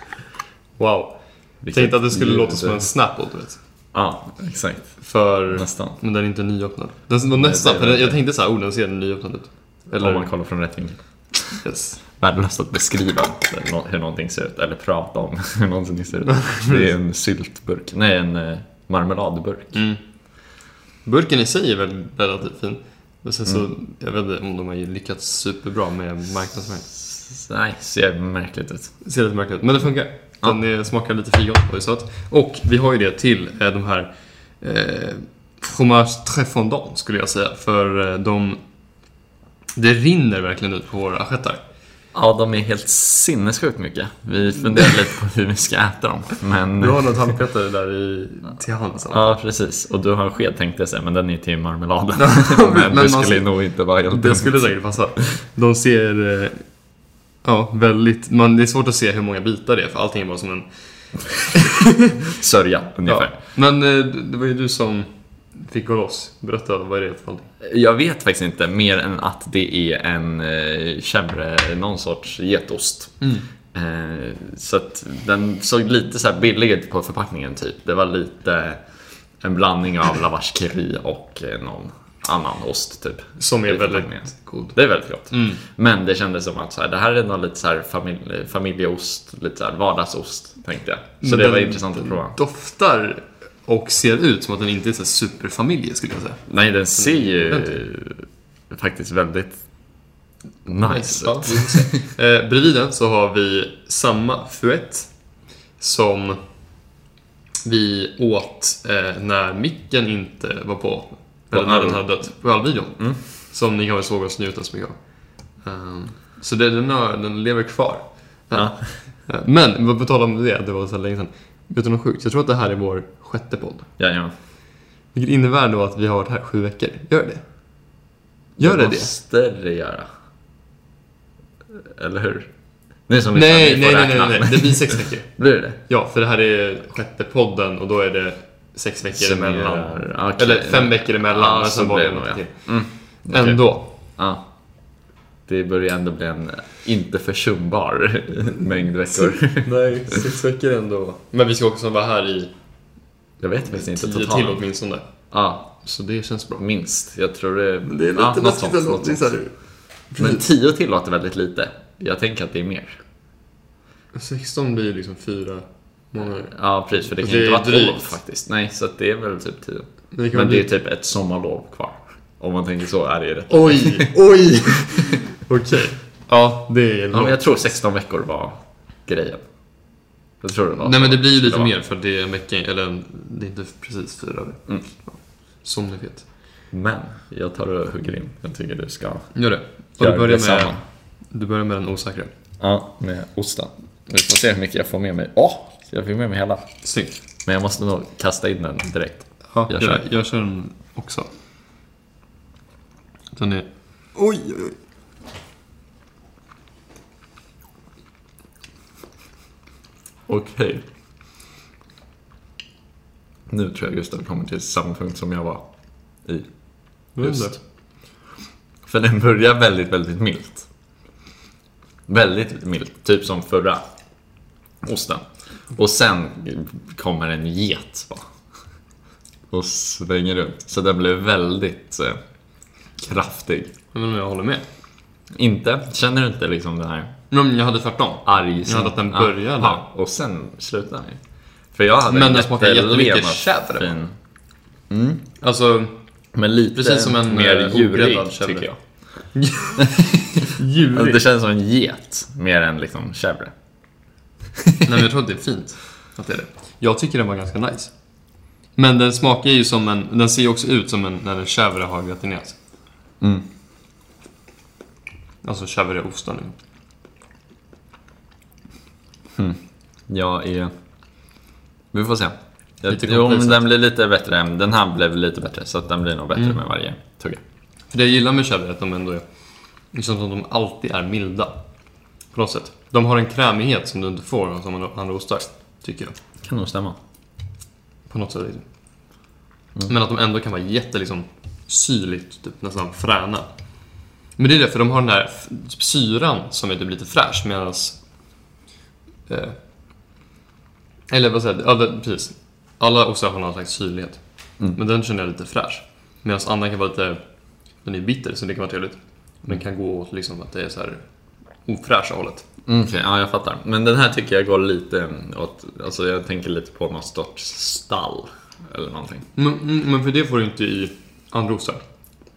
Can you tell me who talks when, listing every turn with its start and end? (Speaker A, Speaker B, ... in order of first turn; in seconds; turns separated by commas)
Speaker A: 0.8-3.6, Speaker B: 1.6-3.0, Speaker B: 3.9-6.0, Speaker A: 5.0-10.3, Speaker B: 7.3-8.2, Speaker B: 9.9-19.8, Speaker A: 11.5-12.0, Speaker A: 16.5-16.8, Speaker A: 19.7-26.9, Speaker B: 26.9-29.0, Speaker A: 29.0-38.6, Speaker A: 39.8-41.6, Speaker B: 42.1-47.3, Speaker A: 46.8-49.4, Speaker B: 49.1-55.0, Speaker A: 52.2-61.6, Speaker B: 62.4-63.3, Speaker A: 63.0-67.5, Speaker B: 67.6-92.4, Speaker A: 73.2-73.5, Speaker A: 83.4-84.8, Speaker A: 85.3-85.6, Speaker A: 91.2-97.8, Speaker B: 96.5-102.0, Speaker A: 100.8-106.8, Speaker A: 107.7-124.0, Speaker B: 111.5-113.2, Speaker B: 118.5-119.0, Speaker B: 124.0-124.3, Speaker A: 125.1-127.9, Speaker A: 128.6-129.1, Speaker B: 128.6-130.1, Speaker B: 131.7-135.8, Speaker A: 133.3-143.9, Speaker B: 139.2-149.8, Speaker A: 149.1-152.6, Speaker B: 153.4-154.6, Speaker A: 153.7-156.6, Speaker B: 155.3-155.8, Speaker B: 156.6-163.0, Speaker A: 157.8-160.4, Speaker A: 164.1-168.2, Speaker B: 166.5-174.9, Speaker A: 170.1-170.7, Speaker A: 173.5-177.7, Speaker B: 177.1-181.7, Speaker A: 180.8-186.3, Speaker B: 186.7-190.8, Speaker A: 189.3-192.3, Speaker B: 192.6-196.8, Speaker A: 196.8-197.2, Speaker B: 197.4-200.1, Speaker A: 199.5-201.3, Speaker A: 203.3-204.8, Speaker B: 210.3-210.8, Speaker B: 213.5-217.6, Speaker A: 217.1-217.6, Speaker B: 218.9-220.7, Speaker B: 222.1-223.8, Speaker B: 224.4-228.3, Speaker B: 229.5-232.2, Speaker B: 233.0-233.7, Speaker A: 233.9-234.7, Speaker B: 235.3-237.1, Speaker A: 237.3-239.8, Speaker B: 238.2-244.2, Speaker A: 242.1-243.9, Speaker B: 244.9-245.3, Speaker A: 245.4-246.0, Speaker B: 246.3-249.0, Speaker A: 246.8-251.2, Speaker B: 250.3-253.5, Speaker A: 254.8-262.6, Speaker B: 263.2-263.5, Speaker A: 265.4-266.5, Speaker B: 269.4-270.7, Speaker B: 271.9-277.4, Speaker A: 272.9-273.6, Speaker A: 277.9-286.2, Speaker B: 286.4-287.0, Speaker A: 288.1-289.3, Speaker A: 289.9-298.1, Speaker A: 299.3-299.6, Speaker A: 301.1-312.5, Speaker B: 312.7-319.3, Speaker A: 319.4-321.8